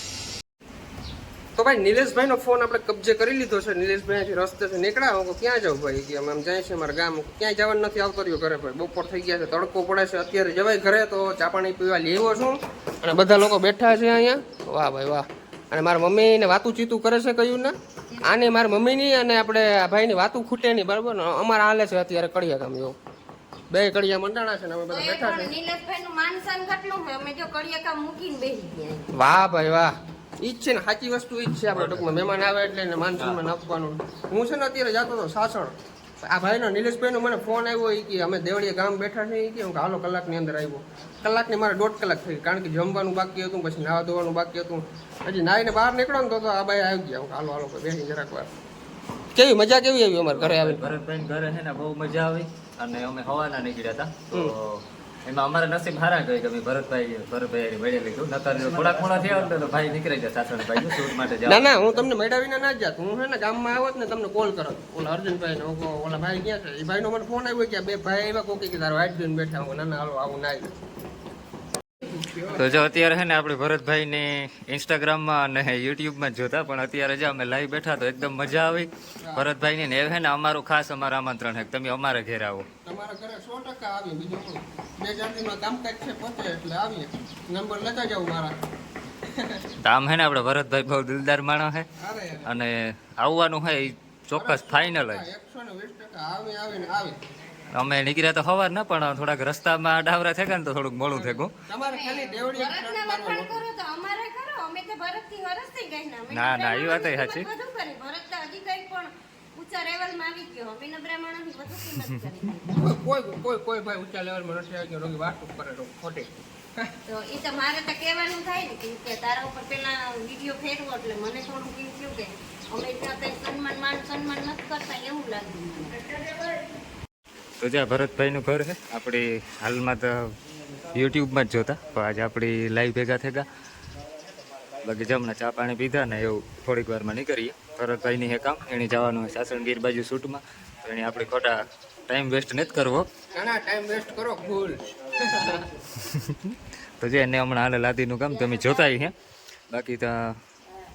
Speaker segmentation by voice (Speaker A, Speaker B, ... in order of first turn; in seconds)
Speaker A: 1.6-23.0, 23.7-25.5, 29.1-48.5, 49.4-50.8, 61.5-70.7, 72.1-72.8, 79.2-79.5, 82.8-88.5, 89.3-89.6, 92.0-92.5, 94.3-97.2, 101.1-103.6, 112.7-116.9, 143.3-145.7
Speaker B: 24.9-29.1, 101.8-112.8, 117.1-126.0
Speaker C: 31.7-32.2, 50.3-62.1, 72.5-82.7, 89.8-91.9, 92.4-95.3, 97.7-101.5, 106.3-107.5, 127.6-130.2, 130.9-133.5, 134.8-143.1, 146.0-149.2, 149.7-150.4